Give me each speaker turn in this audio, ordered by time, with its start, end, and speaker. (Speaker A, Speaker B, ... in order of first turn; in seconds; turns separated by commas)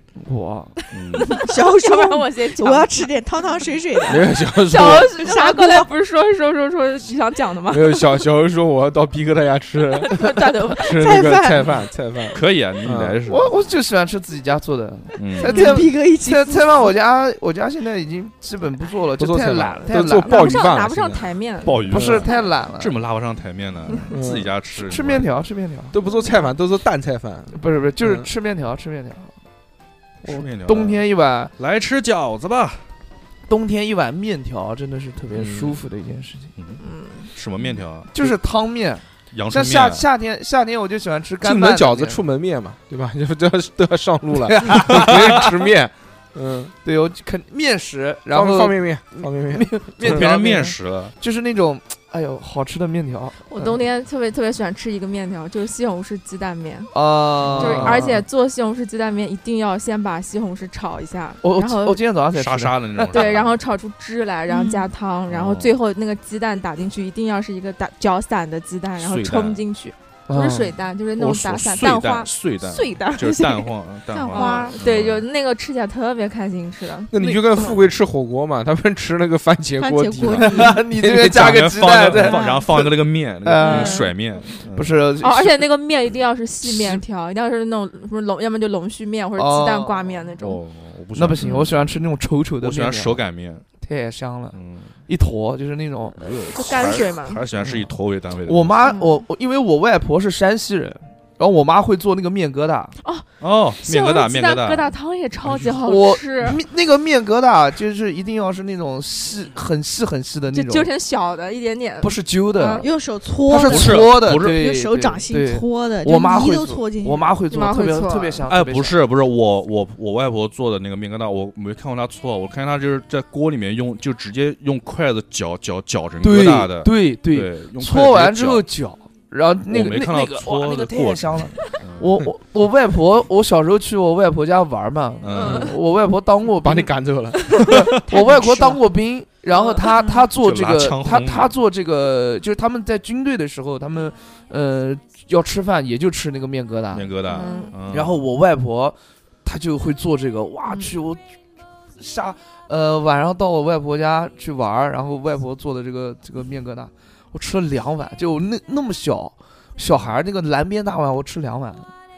Speaker A: 0.2-0.9, Speaker B: 0.9-1.4, Speaker C: 1.2-3.1, Speaker D: 1.3-5.9, Speaker E: 4.1-5.3, Speaker C: 4.7-8.2, Speaker E: 7.7-13.2, Speaker C: 10.0-11.0, Speaker D: 10.8-11.7, Speaker B: 12.3-13.5, Speaker A: 13.2-20.5, Speaker B: 15.2-15.6, Speaker C: 15.4-15.8, Speaker D: 15.4-16.9, Speaker E: 19.2-21.3, Speaker C: 19.9-22.4, Speaker B: 21.6-25.3, Speaker A: 21.8-23.0, Speaker E: 24.1-24.5, Speaker A: 24.7-25.9, Speaker E: 25.9-28.3, Speaker D: 26.1-26.4, Speaker A: 27.5-29.3, Speaker B: 30.2-31.1, Speaker A: 30.2-31.5, Speaker B: 31.6-32.9, Speaker A: 33.5-36.5, Speaker E: 35.3-35.8, Speaker B: 36.6-38.1, Speaker C: 36.8-37.3, Speaker A: 38.1-42.2, Speaker B: 39.3-40.0, Speaker E: 41.4-46.7, Speaker A: 44.5-45.5, Speaker A: 46.8-53.8, Speaker E: 48.3-50.3, Speaker B: 50.0-51.2, Speaker C: 53.5-56.9, Speaker A: 56.9-58.2, Speaker B: 57.4-58.1, Speaker C: 57.5-62.0, Speaker A: 61.4-63.4, Speaker B: 62.3-63.6, Speaker C: 63.0-72.3, Speaker D: 64.5-64.9, Speaker B: 65.3-65.7, Speaker B: 69.0-69.6, Speaker A: 70.3-70.8, Speaker B: 71.2-75.3, Speaker D: 71.8-74.8, Speaker C: 74.3-77.7, Speaker E: 77.1-81.9, Speaker D: 79.8-80.6, Speaker A: 80.4-84.1, Speaker B: 81.3-85.0, Speaker D: 82.2-82.6, Speaker C: 83.6-84.0, Speaker D: 83.6-84.1, Speaker A: 84.7-85.7, Speaker C: 85.2-90.6, Speaker A: 89.4-90.3, Speaker B: 90.4-91.6, Speaker A: 91.1-93.2, Speaker B: 92.6-93.7, Speaker A: 93.8-94.6, Speaker B: 94.5-95.0, Speaker A: 95.1-96.4, Speaker B: 96.2-98.8, Speaker C: 96.5-97.4, Speaker A: 97.6-97.9, Speaker A: 98.5-103.0, Speaker C: 98.8-99.2, Speaker C: 103.0-103.3, Speaker B: 103.4-104.9, Speaker C: 103.8-106.6, Speaker A: 105.6-110.9, Speaker C: 110.5-112.9, Speaker A: 112.0-112.9, Speaker D: 112.8-117.3, Speaker A: 113.5-119.0, Speaker B: 113.6-114.6, Speaker C: 117.5-118.4, Speaker B: 118.5-128.7, Speaker A: 126.2-136.9, Speaker B: 129.7-132.2, Speaker B: 135.2-135.8, Speaker C: 135.3-135.8, Speaker E: 136.6-137.6, Speaker A: 137.6-147.2, Speaker D: 138.1-138.8, Speaker C: 139.5-139.9, Speaker B: 140.4-141.5, Speaker B: 146.9-148.2, Speaker C: 147.2-147.8, Speaker D: 147.4-147.7, Speaker A: 147.9-151.2, Speaker C: 150.7-150.9, Speaker A: 152.0-161.9